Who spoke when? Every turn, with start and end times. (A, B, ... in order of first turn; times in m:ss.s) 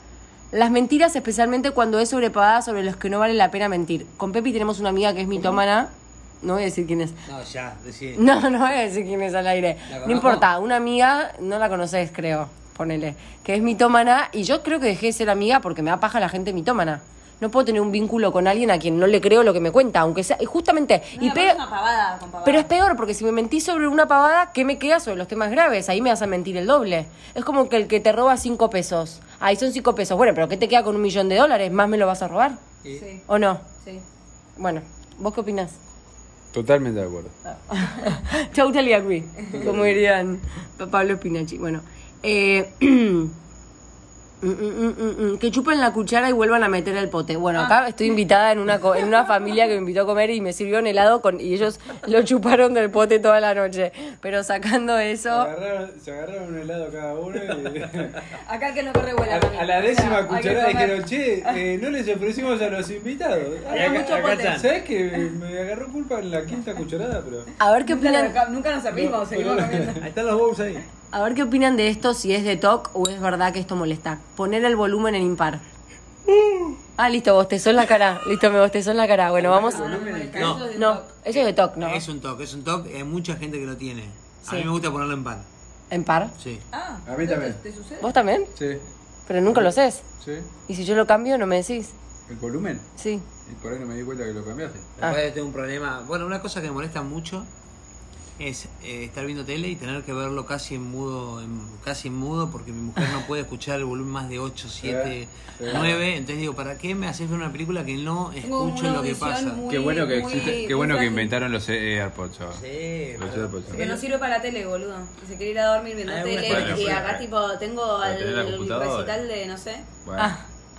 0:00.5-0:07.2 A
0:07.2-0:08.4 B
0:08.2-0:21.6 A
0:09.9-0:10.5 B
0:21.2-0:22.7 C
0:22.4-0:32.6 A
0:32.9-0:33.2 C
0:33.3-0:33.7 A
0:34.6-0:35.8 A
0:36.5-0:37.3 D
0:37.5-0:43.3 A
0:39.5-0:40.0 D
0:44.4-0:55.5 A
0:55.3-0:58.2 D
0:58.3-1:01.6 C
0:59.3-1:07.5 D
1:03.6-1:04.5 C
1:03.7-1:04.7 B
1:07.6-1:08.4 A
1:07.8-1:10.0 C
1:08.9-1:10.0 D
1:10.0-1:10.9 B
1:11.1-1:15.6 A
1:17.0-1:20.0 A
1:19.4-1:20.6 D
1:19.6-1:21.1 C
1:20.3-1:20.7 B
1:20.7-1:22.0 A
1:21.3-1:25.5 B
1:25.9-1:26.3 A
1:26.4-1:26.6 B
1:26.7-1:28.2 C
1:27.0-1:27.6 D
1:28.0-1:28.5 A
1:28.5-1:28.8 D
1:29.3-1:30.0 A
1:29.5-1:30.5 D
1:30.7-1:31.9 A
1:32.3-1:32.9 D
1:33.0-1:33.2 A
1:33.4-1:34.9 D
1:35.0-1:37.5 B
1:38.4-1:49.6 B
1:44.8-1:46.0 D
1:48.4-1:51.3 C
1:49.7-1:52.6 D
1:52.5-1:54.0 B
1:53.2-1:53.9 D
1:53.7-1:59.9 C
1:56.0-1:57.2 B
1:56.4-1:57.2 D
1:58.0-1:59.2 D
2:00.0-2:00.3 D
2:00.2-2:00.5 A